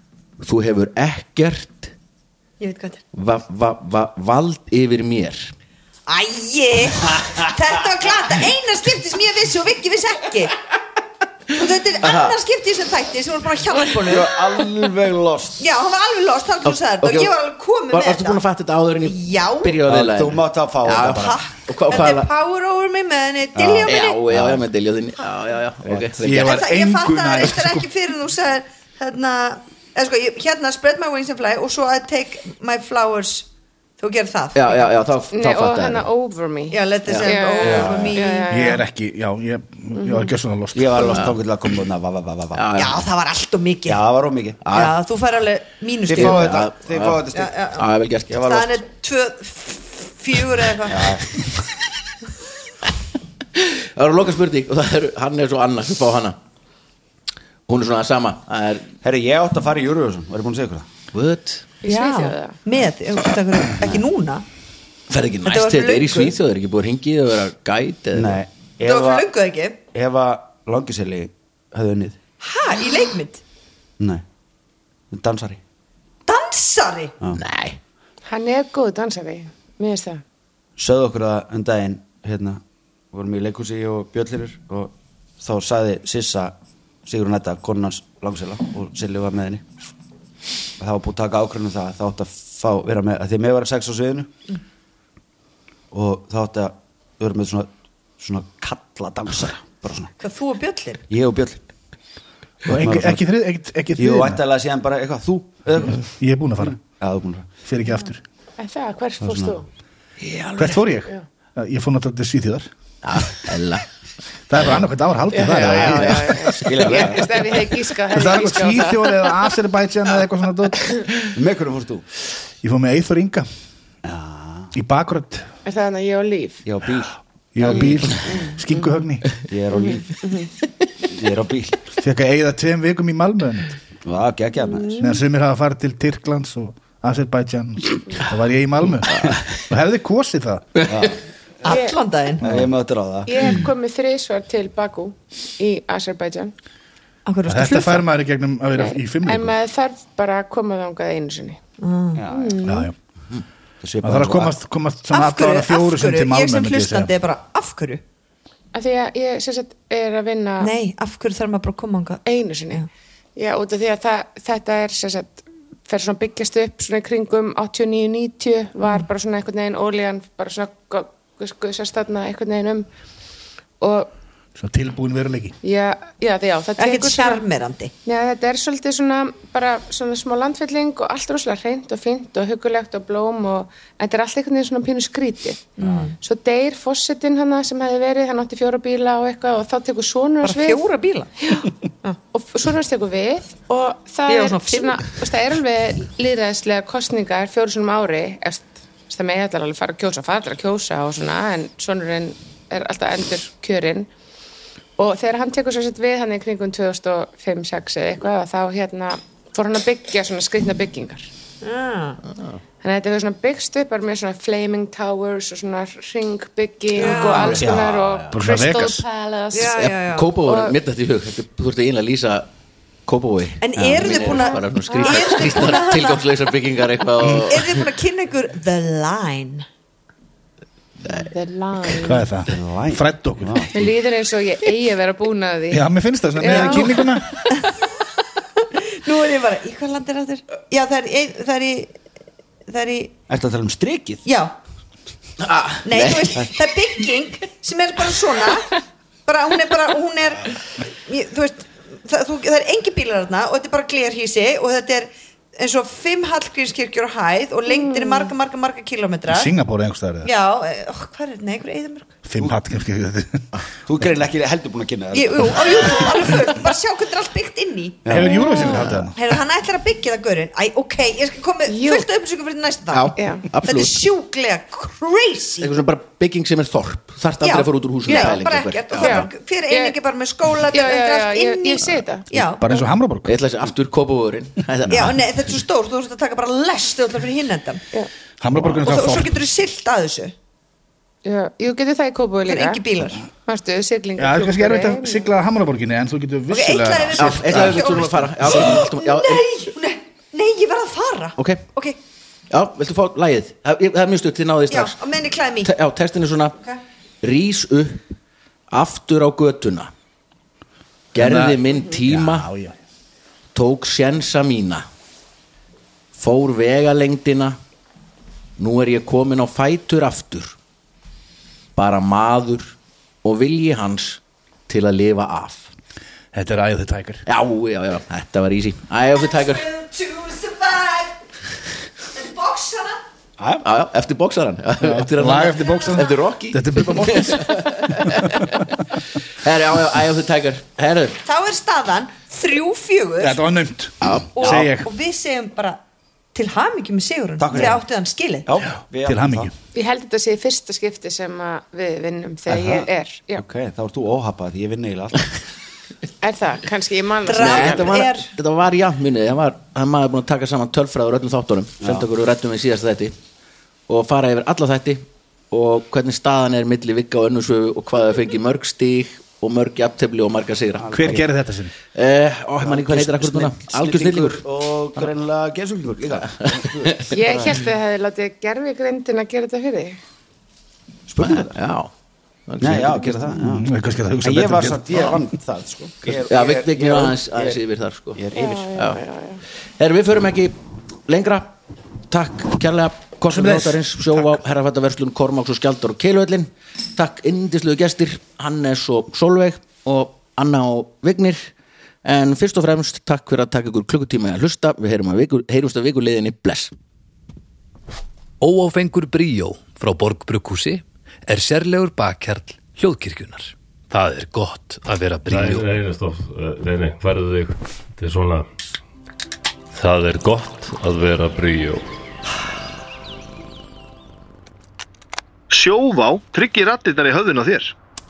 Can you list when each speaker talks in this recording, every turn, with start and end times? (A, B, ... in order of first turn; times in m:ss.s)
0:00.4-0:01.9 A
0:02.6-0:03.0 B
0:03.1-0:05.5 A
0:06.1-0:10.6 B
0:11.5-0:14.3 B
0:12.0-0:12.4 A
0:14.1-0:15.6 C
0:15.6-0:18.4 B
0:16.6-0:17.3 A
0:17.9-0:22.3 A
0:19.0-0:19.8 B
0:19.8-0:21.4 C
0:21.1-0:24.2 B
0:23.6-0:23.9 C
0:23.8-0:26.6 A
0:26.2-0:27.9 D
0:26.4-0:33.5 B
0:34.0-0:34.9 B
0:34.6-0:36.1 A
0:35.3-0:38.8 E
0:36.7-0:38.8 B
0:37.6-0:38.2 C
0:38.5-0:41.1 D
0:40.0-0:40.3 E
0:40.7-0:42.6 C
0:41.1-0:41.4 A
0:42.5-0:43.0 A
0:42.8-0:44.0 B
0:43.9-0:44.6 C
0:44.6-0:45.0 A
0:44.7-0:46.6 B
0:46.1-0:47.5 C
0:46.1-0:48.5 A
0:47.3-0:47.9 B
0:48.3-0:48.8 C
0:48.4-0:51.2 B
0:50.9-0:51.3 C
0:53.6-0:56.4 A
0:57.7-0:59.0 A
0:59.0-1:00.9 C
1:01.1-1:01.7 A
1:01.8-1:02.6 E
1:01.9-1:04.4 B
1:05.1-1:08.4 A
1:05.4-1:06.4 B
1:08.1-1:09.3 C
1:08.8-1:09.8 B
1:09.9-1:12.2 C
1:12.4-1:13.4 B
1:14.0-1:14.2 C
1:15.1-1:15.6 C
1:16.3-1:17.1 B
1:17.3-1:17.8 A
1:18.3-1:20.2 E
1:20.8-1:22.6 C
1:23.1-1:29.9 C
1:30.8-1:34.4 C
1:35.9-1:40.1 C
1:40.2-1:41.0 B
1:41.1-1:41.6 C
1:42.7-1:44.4 D
1:42.7-1:43.2 C
1:44.0-1:46.0 C
1:46.2-1:46.8 D
1:46.6-1:47.6 C
1:47.6-1:48.2 D
1:48.6-1:49.6 E
1:49.2-1:49.6 C
1:50.2-1:50.8 A
1:50.6-1:52.7 D
1:53.0-1:53.9 A
1:54.5-1:57.1 D
1:54.5-1:54.8 A
1:55.3-1:59.5 E
1:55.6-1:57.1 A
1:56.6-1:57.3 C
1:58.1-2:01.3 D
2:01.3-2:02.1 C
2:02.6-2:03.5 D
2:04.0-2:04.7 C
2:04.7-2:05.5 D
2:05.6-2:06.6 E
2:06.6-2:08.2 C
2:07.6-2:09.4 D
2:07.7-2:08.9 E
2:09.5-2:10.1 C
2:09.7-2:10.5 E
2:11.1-2:11.9 C
2:12.0-2:13.7 D
2:14.0-2:15.0 C
2:15.0-2:20.7 D
2:19.1-2:19.5 A
2:20.8-2:21.1 A
2:20.9-2:21.2 C
2:21.6-2:22.4 B
2:21.6-2:22.0 E
2:22.4-2:23.5 C
2:23.3-2:26.5 E
2:27.3-2:28.1 B
2:27.5-2:29.6 D
2:28.8-2:31.6 E
2:31.8-2:32.2 B
2:32.2-2:32.6 C
2:32.3-2:32.9 E
2:32.6-2:33.0 D
2:33.8-2:34.5 C
2:34.0-2:37.1 D
2:35.1-2:38.0 B
2:38.7-2:40.7 E
2:40.6-2:42.9 B
2:42.2-2:42.8 E
2:43.4-2:52.9 E
2:53.8-2:54.1 E
2:54.6-2:55.6 D
2:55.6-2:57.4 E
2:56.8-2:57.9 B
2:58.0-3:10.8 E
3:05.8-3:06.1 B
3:05.8-3:06.1 C
3:10.4-3:11.3 B
3:11.4-3:11.7 E
3:12.3-3:24.1 E
3:14.3-3:15.0 B
3:25.0-3:31.3 E
3:31.6-3:32.2 B
3:32.8-3:39.8 E
3:37.0-3:37.7 B
3:37.0-3:38.3 A
3:37.6-3:37.9 C
3:38.3-3:39.0 D
3:39.5-3:40.3 B
3:39.7-3:42.5 A
3:40.4-3:40.8 E
3:43.1-3:47.8 A
3:43.6-3:46.2 B
3:44.0-3:45.6 E
3:47.5-3:49.7 B
3:51.1-3:52.3 E
3:52.0-3:53.9 D
3:52.5-3:53.7 C
3:53.7-3:57.1 E
3:55.7-3:57.3 D
3:56.5-3:56.8 B
3:58.6-4:01.9 B
4:02.7-4:03.1 B
4:03.3-4:04.2 C
4:04.2-4:04.5 B
4:05.4-4:06.5 A
4:05.8-4:19.5 B
4:17.7-4:18.3 E
4:19.3-4:20.3 D
4:20.2-4:22.1 B
4:22.2-4:23.4 D
4:23.9-4:26.3 C
4:25.1-4:28.0 B
4:28.0-4:28.7 C
4:28.1-4:29.2 D
4:28.3-4:28.9 E
4:29.1-4:35.8 B
4:31.7-4:32.1 E
4:32.9-4:33.9 A
4:33.2-4:33.4 E
4:35.6-4:39.3 A
4:37.4-4:42.8 B
4:38.1-4:38.4 E
4:39.0-4:40.0 E
4:40.7-4:42.3 E
4:42.6-4:43.4 D
4:43.3-4:45.3 A
4:44.9-4:47.8 B
4:48.4-4:49.4 D
4:48.6-4:50.4 B
4:51.2-4:52.8 E
4:52.5-4:53.2 B
4:53.4-4:55.3 E
4:54.2-4:58.7 D
4:56.5-5:02.0 B
4:57.2-4:59.4 A
5:01.4-5:01.6 A
5:02.5-5:05.0 A
5:04.7-5:05.7 B
5:05.6-5:06.6 A
5:07.2-5:08.0 A
5:08.7-5:09.9 A
5:11.1-5:12.5 A
5:11.2-5:12.7 D
5:13.5-5:14.8 A
5:16.2-5:17.6 A
5:18.6-5:20.6 A
5:21.8-5:25.7 A
5:26.3-5:27.2 D
5:27.3-5:29.7 A
5:29.2-5:31.2 B
5:32.1-5:33.0 B
5:33.4-5:33.6 C
5:33.6-5:38.5 A
5:34.8-5:38.6 D
5:39.4-5:41.2 A
5:41.2-5:43.4 B
5:43.2-5:44.9 D
5:44.0-5:44.7 A
5:44.4-5:45.8 B
5:46.3-5:48.5 B
5:47.4-5:47.8 C
5:48.5-5:49.5 C
5:49.0-5:49.5 D
5:49.7-5:53.4 E
5:52.5-5:55.2 C
5:56.2-5:58.0 E
5:57.2-5:58.3 B
5:57.3-6:03.2 A
6:01.8-6:02.1 C
6:03.9-6:11.2 A
6:10.8-6:11.3 C
6:10.9-6:11.7 D
6:11.9-6:14.4 A
6:12.6-6:17.6 C
6:16.3-6:17.2 A
6:17.1-6:20.0 E
6:21.1-6:21.6 C
6:21.2-6:21.9 A
6:22.5-6:23.2 A
6:22.6-6:27.6 C
6:23.4-6:25.2 D
6:26.1-6:29.0 A
6:28.2-6:28.8 C
6:28.3-6:29.4 E
6:29.8-6:30.6 A
6:31.1-6:31.6 A
6:32.1-6:41.5 A
6:33.3-6:34.3 D
6:42.0-6:46.7 A
6:48.4-6:55.7 F
6:55.3-6:58.5 G
6:59.7-7:01.9 G
7:05.5-7:07.8 H